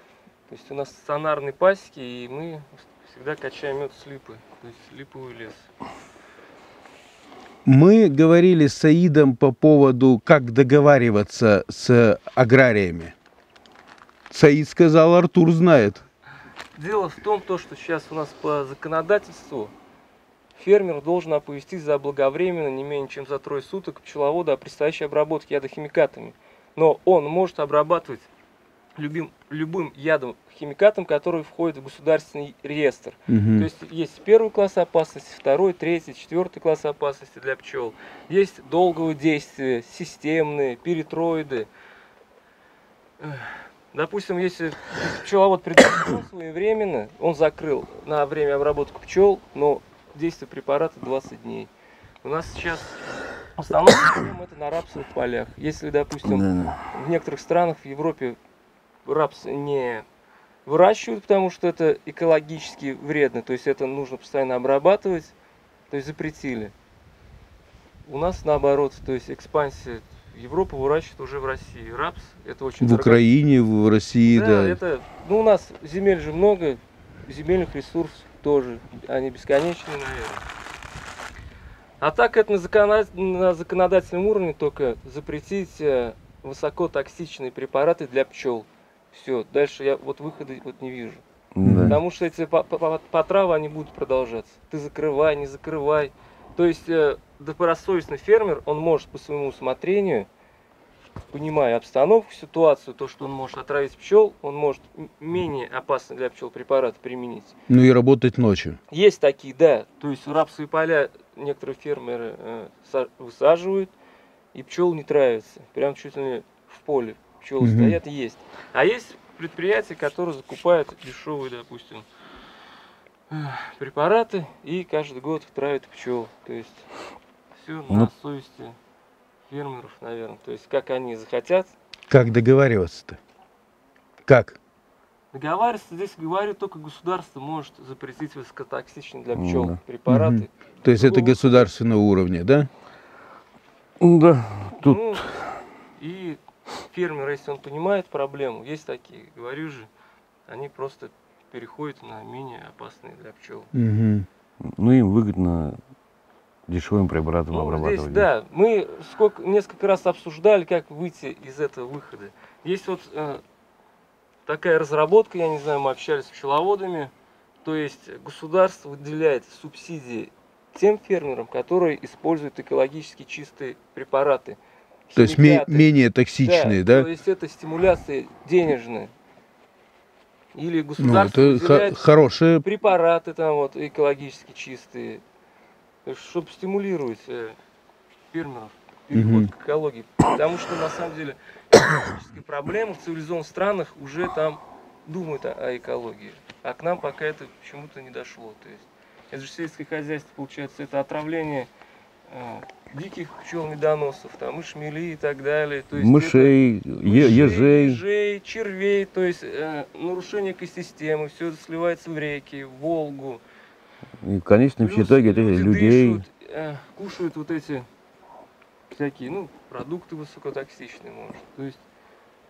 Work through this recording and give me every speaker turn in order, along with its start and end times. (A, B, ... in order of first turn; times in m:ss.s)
0:00.5-0:05.7 A
0:07.7-0:13.2 B
0:14.3-0:16.0 B
0:16.8-0:19.7 A
0:20.6-0:28.3 A
0:29.0-0:41.7 A
0:33.3-0:33.7 B
0:43.2-0:51.7 A
0:52.2-0:58.4 A
0:56.3-0:56.9 C
0:59.0-1:00.1 A
1:00.7-1:05.4 A
1:05.9-1:06.7 A
1:08.1-1:13.2 A
1:12.8-1:14.8 B
1:14.3-1:20.4 A
1:22.0-1:31.2 A
1:31.6-1:32.0 C
1:31.6-1:32.0 B
1:31.9-1:40.3 A
1:41.3-1:47.6 A
1:47.7-1:48.8 B
1:48.9-1:53.9 A
1:54.5-2:02.1 A
1:57.6-1:58.0 B
2:03.3-2:06.9 A
2:07.5-2:08.8 A
2:09.5-2:11.7 A
2:12.1-2:13.2 B
2:14.3-2:14.6 B
2:15.3-2:21.7 A
2:19.4-2:19.8 C
2:20.1-2:22.7 B
2:24.0-2:25.2 C
2:24.8-2:25.3 A
2:26.0-2:29.9 A
2:30.5-2:33.7 A
2:33.7-2:34.3 B
2:34.6-2:35.8 C
2:36.7-2:38.3 C
2:37.5-2:43.4 A
2:44.5-2:47.1 A
2:47.6-2:54.6 A
2:55.1-2:55.9 A
2:55.2-2:57.1 B
2:56.4-2:59.1 A
3:00.5-3:02.0 A
3:01.0-3:02.6 B
3:02.6-3:05.2 A
3:06.0-3:07.6 A
3:08.3-3:21.7 A
3:09.1-3:09.5 B
3:22.3-3:33.4 A
3:26.0-3:28.0 C
3:34.2-3:36.2 C
3:34.8-3:37.9 A
3:38.9-3:41.8 A